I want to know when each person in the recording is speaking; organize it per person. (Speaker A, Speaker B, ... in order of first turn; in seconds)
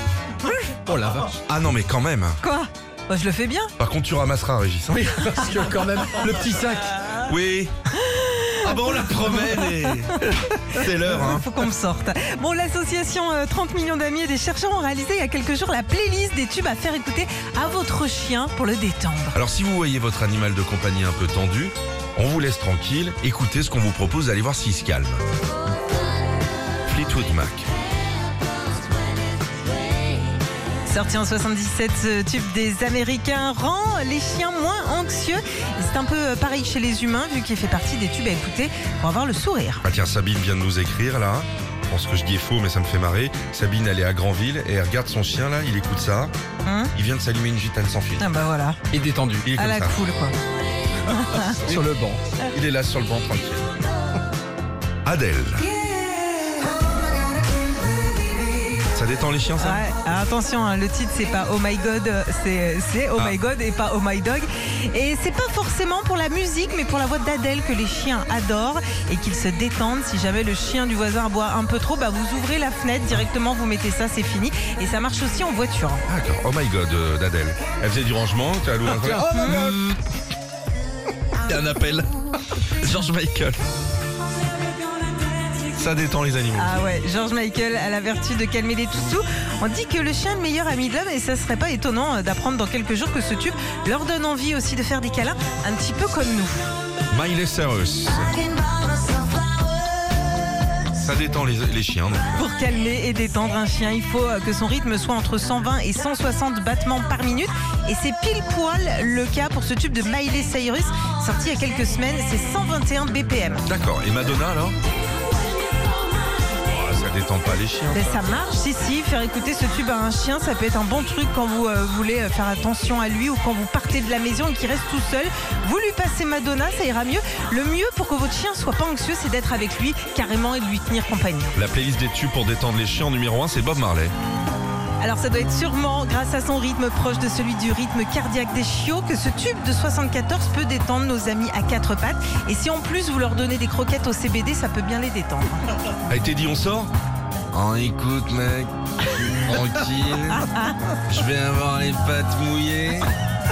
Speaker A: 0.4-0.8, 2.4-3.7, 8.0-8.9, 9.5-19.4, 30.9-39.8, 46.6-46.9, 48.2-48.8, 49.5-50.4, 51.1-51.6, 59.6-76.0, 79.3-79.6, 86.6-96.7, 102.3-113.6, 117.9-131.5, 135.0-145.7, 150.4-150.7
Speaker B: 0.8-1.4, 4.9-7.0, 48.9-49.5, 51.6-52.2, 78.9-79.8
Speaker C: 1.4-2.4, 3.8-5.2, 7.2-7.7, 8.6-11.5, 19.3-25.2, 26.9-27.7, 39.8-46.3, 46.9-48.2, 49.4-50.0, 52.5-53.7, 55.0-55.7, 58.9-59.8, 76.1-79.9, 81.4-83.6, 85.7-86.8, 97.1-98.5, 100.9-102.4, 113.7-114.8, 116.7-118.4, 131.5-134.1, 146.1-146.9, 147.5-150.4, 151.1-153.1